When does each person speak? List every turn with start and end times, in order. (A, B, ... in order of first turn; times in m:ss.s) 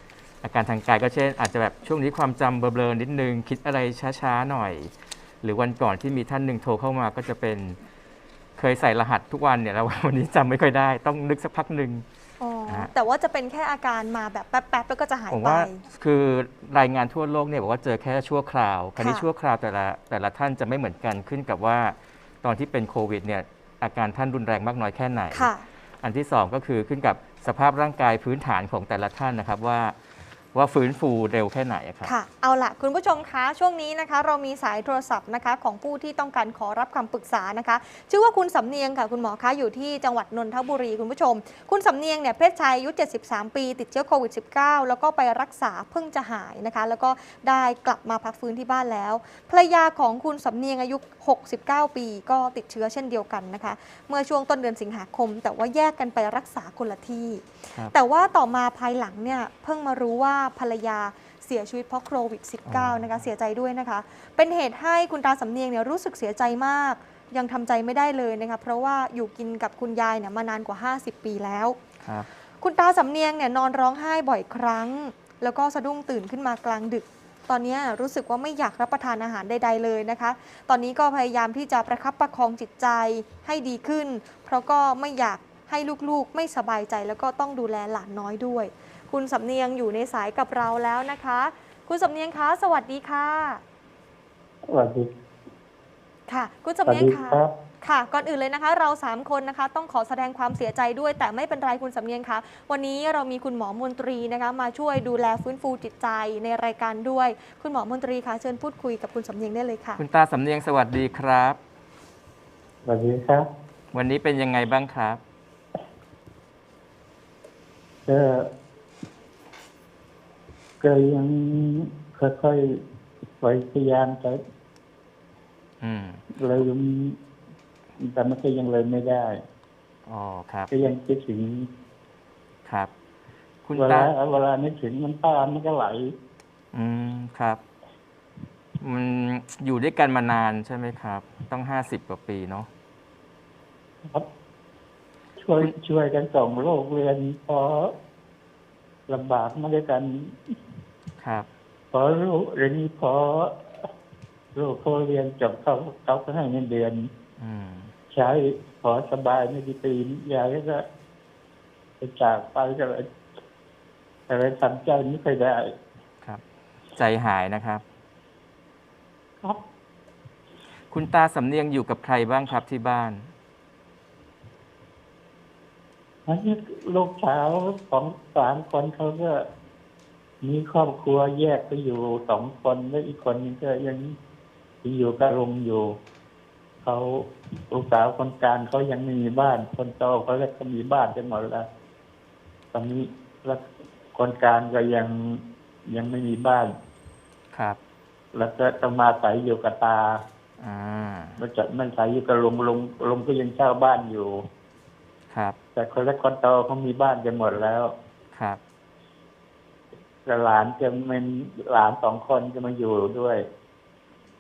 0:00.4-0:07.8 A
0:08.6-0:12.0 A
0:12.4-0:15.9 B
0:15.3-0:30.0 A
0:19.0-0:19.3 B
0:25.3-0:25.7 B
0:30.5-0:32.1 A
0:32.0-1:11.8 B
1:02.7-1:03.0 A
1:12.0-1:12.3 A
1:12.5-1:33.6 B
1:34.7-1:35.1 C
1:36.3-1:50.0 B
1:36.9-1:37.5 C
1:50.0-1:51.6 A
1:52.8-1:53.5 C
1:53.9-1:55.2 A
1:58.0-1:58.5 C
2:00.8-2:02.8 C
2:03.4-2:04.4 C
2:05.8-2:06.2 A
2:06.4-2:07.2 C
2:08.0-2:09.4 C
2:10.1-2:10.7 A
2:10.7-2:11.7 C
2:12.6-2:12.9 A
2:13.6-2:14.1 A
2:13.8-2:16.1 C
2:16.7-2:17.6 A
2:18.8-2:22.7 A
2:25.4-2:27.9 C
2:29.1-2:30.6 C
2:31.2-2:31.5 A
2:31.9-2:33.9 C
2:34.5-2:37.1 C
2:37.4-2:37.9 A
2:38.1-2:40.8 C
2:42.0-2:43.1 C
2:44.3-2:45.7 C
2:46.9-2:47.8 A
2:50.9-2:53.3 A
2:56.3-2:59.4 C
3:00.4-3:04.2 C
3:04.8-3:05.8 C
3:06.8-3:11.6 C
3:12.7-3:16.7 C
3:17.5-3:17.8 A
3:18.3-3:20.2 C
3:20.6-3:21.4 A
3:21.4-3:24.3 C
3:25.3-3:25.6 A
3:25.8-3:27.9 C
3:28.3-3:28.6 A
3:30.2-3:33.4 C